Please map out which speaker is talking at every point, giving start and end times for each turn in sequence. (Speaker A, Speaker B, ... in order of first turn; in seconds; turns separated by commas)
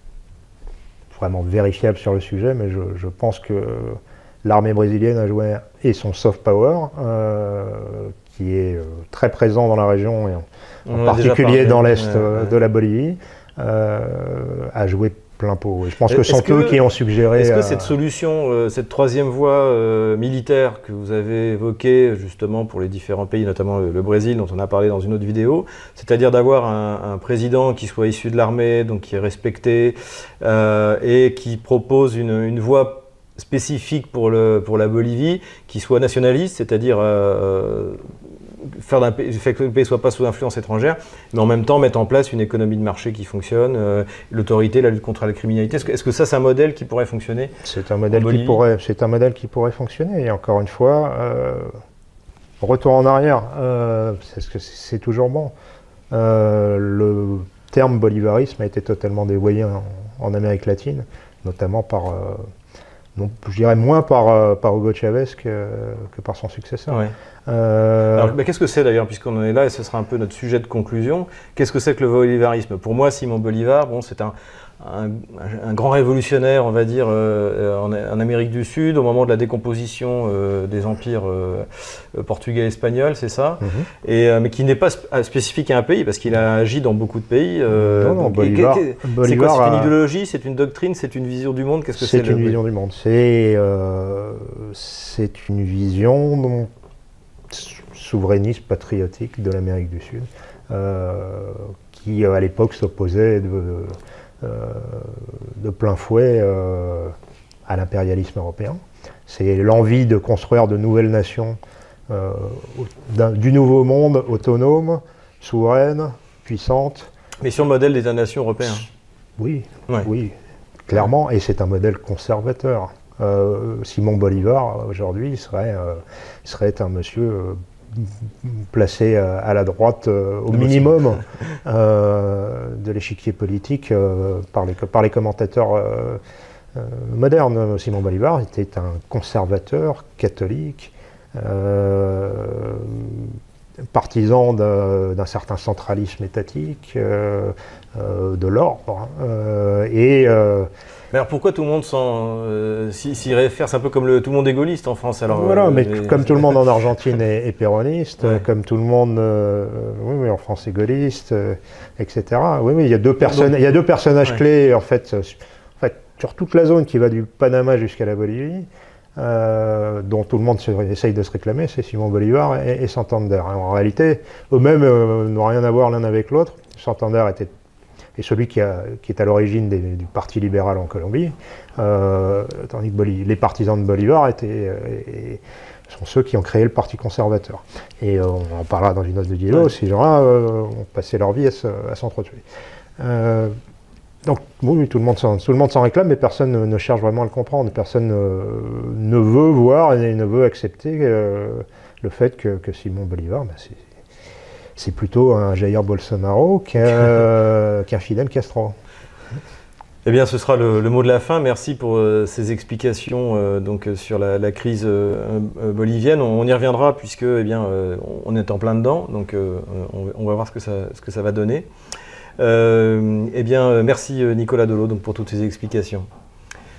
Speaker A: 1.1-17.9, Speaker B: 10.9-12.5, Speaker B: 16.1-16.8, Speaker B: 17.4-38.1, Speaker B: 38.6-47.5, Speaker A: 47.6-51.7, Speaker B: 48.1-48.6, Speaker A: 52.6-55.5, Speaker A: 56.1-62.4, Speaker A: 63.2-68.3, Speaker B: 66.9-67.1, Speaker B: 68.1-92.6, Speaker A: 83.6-83.9, Speaker A: 87.7-89.9, Speaker A: 92.0-96.7, Speaker A: 97.5-107.1, Speaker A: 107.7-111.6, Speaker A: 112.1-117.1, Speaker B: 117.4-118.9, Speaker A: 119.4-120.3, Speaker A: 120.9-136.2, Speaker B: 130.5-131.2, Speaker A: 136.7-143.4, Speaker A: 143.9-150.7, Speaker B: 151.1-156.6, Speaker A: 155.3-177.5, Speaker B: 163.2-163.5, Speaker A: 178.2-192.4, Speaker A: 193.0-193.5, Speaker A: 194.2-203.8, Speaker A: 204.8-208.7, Speaker B: 210.1-221.7, Speaker B: 222.4-226.1